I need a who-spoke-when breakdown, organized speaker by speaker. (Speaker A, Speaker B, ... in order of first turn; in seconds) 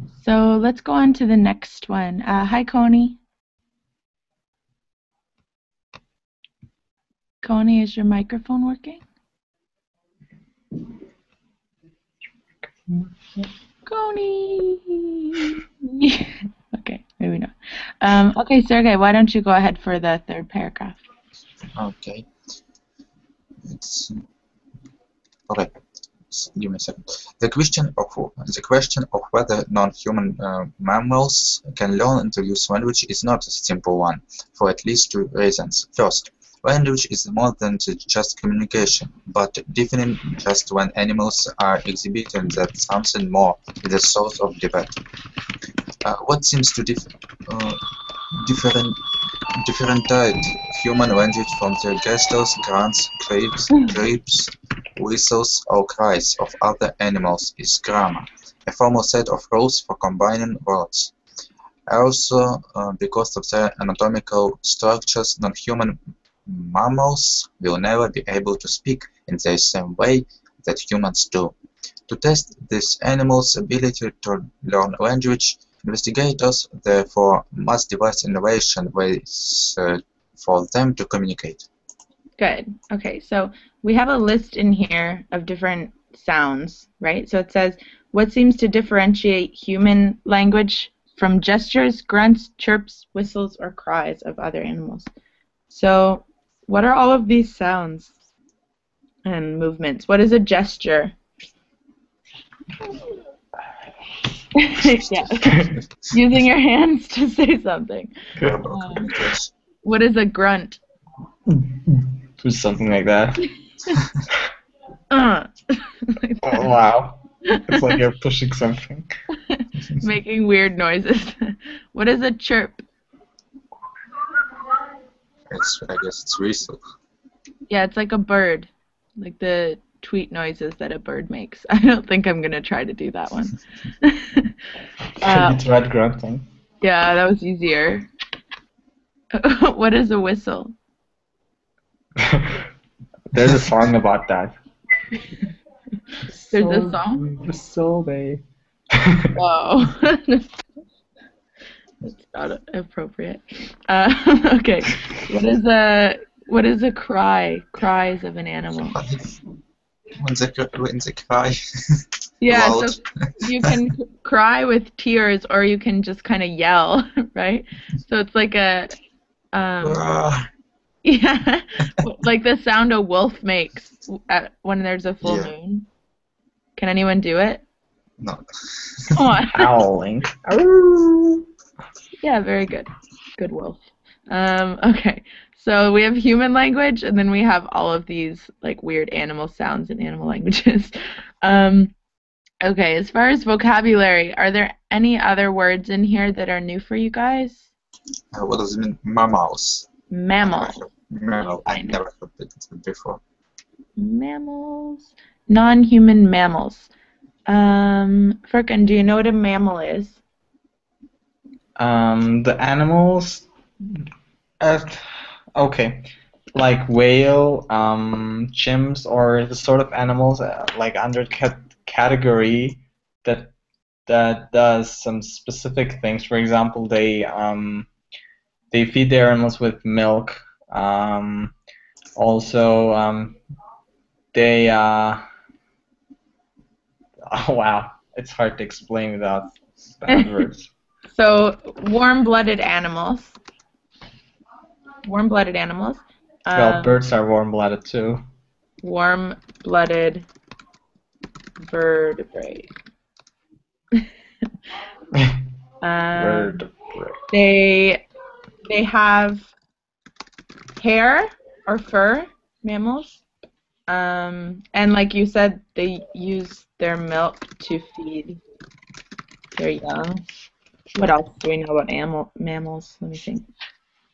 Speaker A: 0.2-3.2, 7.4-9.0, 13.8-21.0, 82.4-95.1, 95.7-98.1, 99.2-101.1, 104.5-108.1, 108.7-109.1, 109.8-110.8, 115.1-116.7, 117.5-118.0, 119.5-122.8, 127.7-134.5, 135.2-135.6, 136.8-138.1, 139.3-140.7, 146.5-147.2, 149.3-150.4, 152.0-159.0, 162.4-168.9, 169.5-170.0, 171.0-175.9, 176.8-177.6, 179.1-179.7, 182.2-191.9, 192.6-197.7, 200.1-200.8, 201.7-202.0, 204.0-206.9, 207.5-210.2, 241.1-243.4, 245.0-247.0, 248.8-250.3, 251.6-252.7, 255.8-256.6, 257.3-258.0, 258.6-259.5, 260.8-263.2, 263.9-268.4, 269.6-270.2, 270.9-273.5
Speaker B: 21.7-22.3, 23.6-24.2, 25.5-25.8, 26.3-45.0, 46.0-47.8, 48.3-49.0, 49.5-61.1, 61.9-71.5, 72.1-81.7, 108.4-109.5, 125.5-126.8, 158.9-159.3, 160.2-163.7, 169.8-170.5, 175.2-175.5, 178.2-179.2, 198.3-199.9, 200.4-203.2
Speaker C: 105.4-105.8, 111.5-113.4, 116.4-119.1, 135.2-136.4, 142.2-142.7, 143.3-144.5, 146.4-149.3, 179.5-181.5, 211.8-214.0, 214.6-223.5, 224.1-227.9, 228.7-231.5, 232.2-233.4, 234.3-235.2, 237.2-240.7, 246.5-248.2, 255.1-255.4, 256.1-257.2